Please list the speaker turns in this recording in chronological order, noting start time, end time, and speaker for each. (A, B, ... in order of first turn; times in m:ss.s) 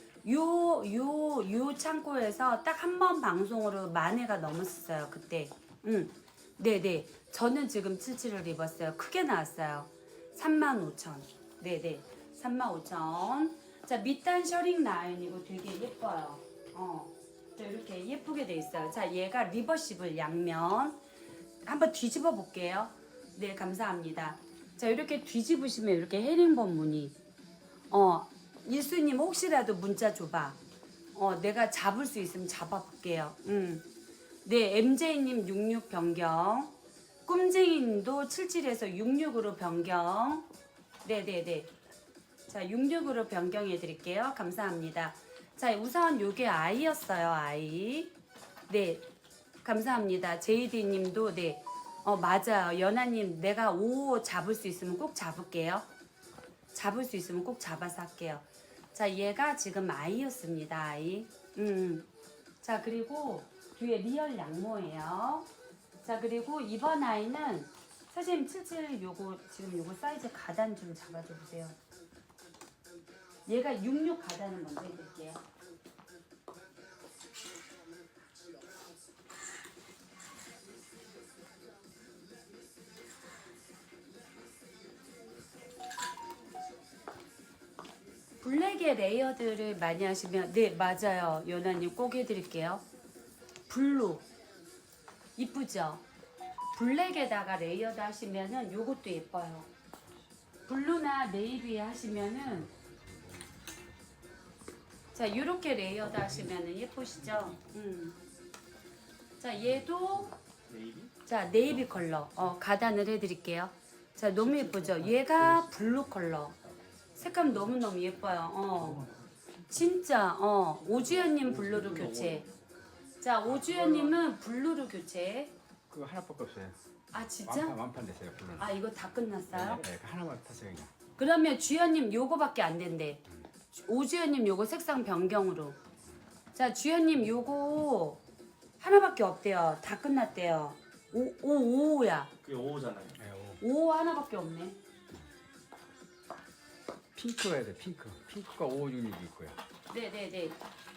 0:00.2-0:21.0 A
0:21.6-0:27.2 A
0:27.9-0:30.6 A
0:31.1-0:33.8 A
0:34.4-0:36.7 A
0:37.2-0:40.5 A
0:41.0-0:41.7 A
0:42.5-0:48.1 A
0:48.7-0:49.0 A
0:49.6-0:55.9 A
0:56.7-1:02.1 A
1:02.6-1:05.5 A
1:06.0-1:11.8 A
1:13.5-1:15.4 A
1:28.4-1:32.8 A
1:33.7-1:34.2 A
1:35.4-1:36.0 A
1:36.7-1:39.7 A
1:40.7-1:42.7 A
1:42.4-1:43.5 B
1:45.1-1:48.2 A
1:49.4-1:50.4 A
1:50.7-1:51.1 C
1:51.2-1:56.6 A
1:54.4-1:57.6 B
1:57.2-1:59.1 A
1:58.3-1:59.0 B
1:58.8-1:59.2 C
1:59.7-2:02.4 A
2:00.9-2:02.6 C
2:03.2-2:05.5 A
2:03.7-2:04.0 C
2:05.9-2:06.8 B
2:07.1-2:07.8 A
2:07.5-2:08.8 B
2:08.6-2:09.8 A
2:09.5-2:10.9 B
2:11.2-2:15.8 A
2:16.5-2:18.2 A
2:18.8-2:22.3 A
2:22.4-2:23.2 C
2:23.2-2:23.6 B
2:23.6-2:24.8 A
2:27.2-2:29.6 B
2:29.9-2:30.6 A